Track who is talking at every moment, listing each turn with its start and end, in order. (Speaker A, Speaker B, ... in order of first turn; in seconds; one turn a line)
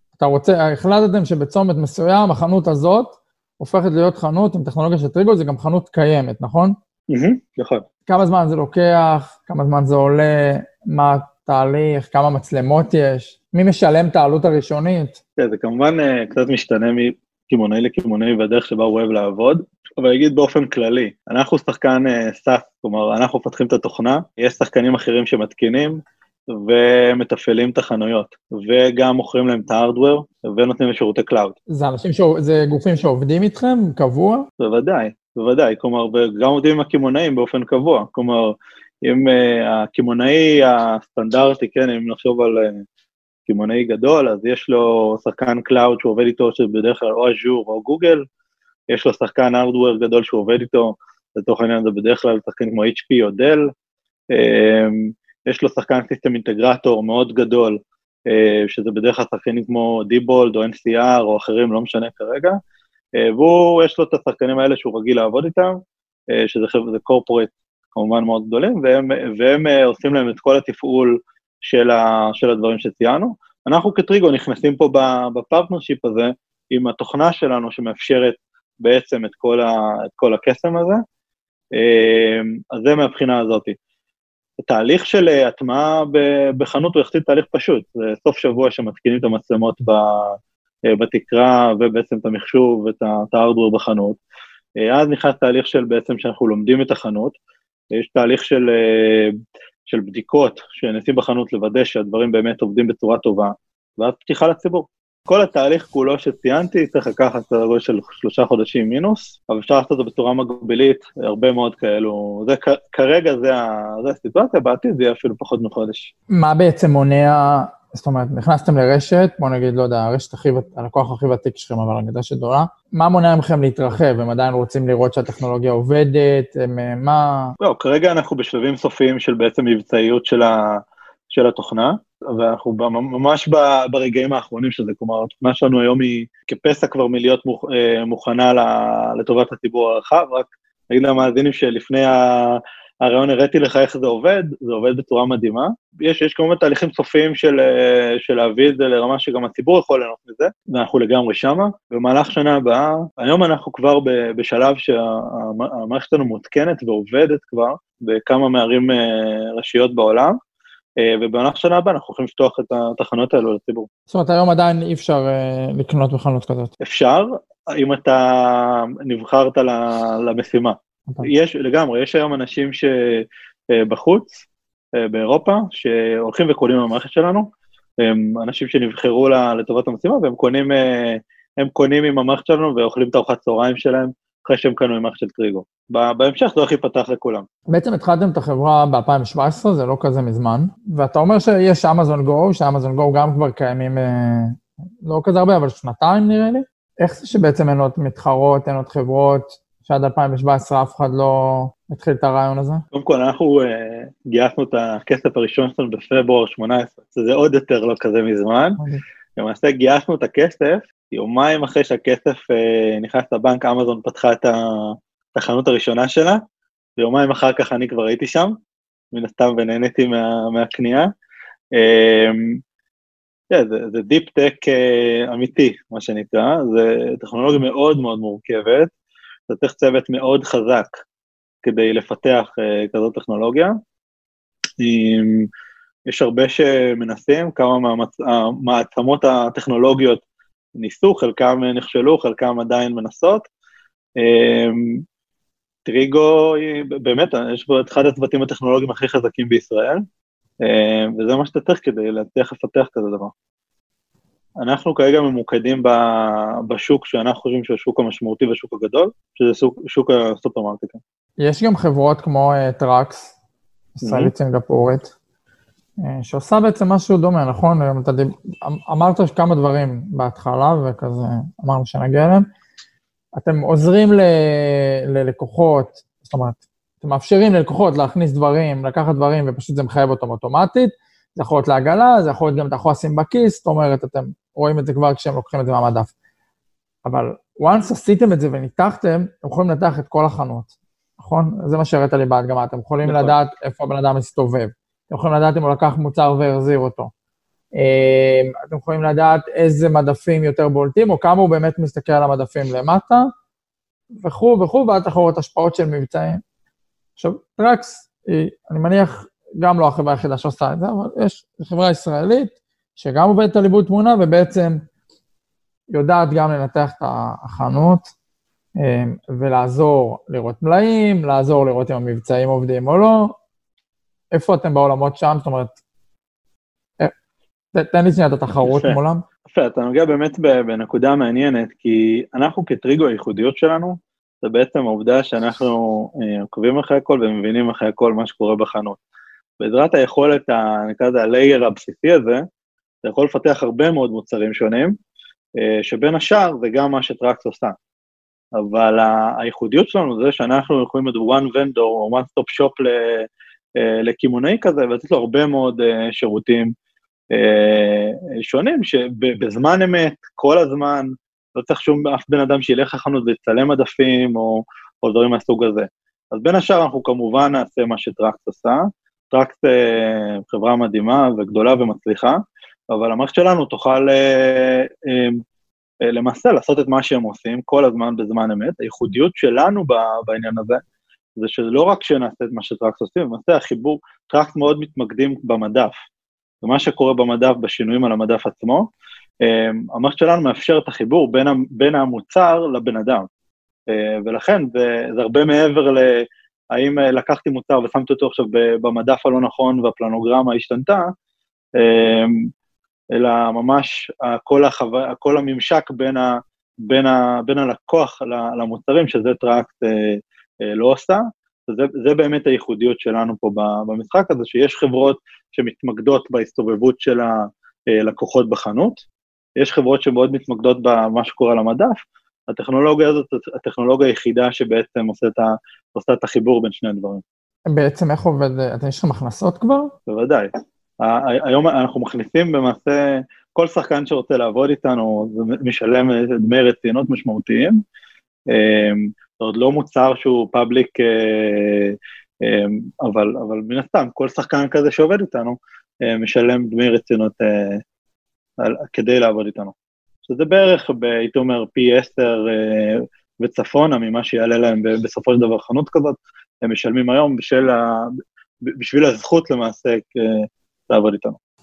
Speaker A: 0.2-6.8
Speaker B: 7.1-7.8
Speaker A: 8.1-15.2
Speaker B: 15.4-31.6
Speaker A: 31.7-34.5
Speaker B: 34.6-42.8
Speaker B: 43.5-48.2
Speaker B: 48.9-53.7
Speaker B: 54.3-62.6
Speaker B: 63.2-65.8
Speaker B: 66.3-81.0
Speaker B: 81.8-83.8
Speaker B: 84.6-90.4
Speaker B: 90.9-94.2
Speaker B: 94.8-97.3
Speaker B: 97.9-99.3
Speaker B: 99.8-116.1
Speaker A: 116.3-127.5
Speaker B: 127.6-160.4
Speaker B: 161.0-163.9
Speaker A: 164.1-166.7
Speaker B: 166.8-174.4
Speaker B: 174.9-177.5
Speaker B: 178.0-187.4
Speaker A: 187.7-202.8
Speaker B: 202.9-208.8
Speaker B: 209.4-216.4
Speaker B: 217.0-218.5
Speaker B: 219.1-221.1
Speaker B: 221.7-222.6
Speaker B: 223.5-228.9
Speaker B: 229.5-230.9
Speaker B: 231.6-233.8
Speaker B: 234.8-235.5
Speaker B: 236.1-240.2
Speaker B: 240.8-243.5
Speaker B: 244.2-245.0
Speaker B: 245.8-250.0
Speaker B: 250.6-253.3
Speaker B: 254.6-261.0
Speaker A: 261.4-263.3
Speaker A: 264.0-265.1
Speaker B: 264.0-264.3
Speaker A: 266.0-272.5
Speaker A: 273.3-286.1
Speaker A: 287.0-297.1
Speaker B: 293.0-293.3
Speaker A: 297.8-303.3
Speaker A: 304.2-306.4
Speaker A: 307.2-314.9
Speaker A: 315.9-318.1
Speaker A: 318.8-323.4
Speaker A: 324.3-325.8
Speaker A: 327.7-329.2
Speaker B: 328.6-328.9
Speaker B: 329.5-339.0
Speaker B: 339.6-342.4
Speaker B: 343.0-344.9
Speaker B: 345.6-347.8
Speaker B: 348.5-356.7
Speaker B: 357.3-375.4
Speaker B: 376.0-380.8
Speaker B: 381.4-385.9
Speaker B: 386.6-388.9
Speaker B: 389.4-393.3
Speaker B: 393.9-401.1
Speaker B: 401.8-402.5
Speaker B: 403.1-419.0
Speaker B: 419.6-427.2
Speaker A: 427.7-429.9
Speaker B: 430.1-437.8
Speaker B: 438.5-447.8
Speaker B: 448.6-449.7
Speaker B: 450.2-461.4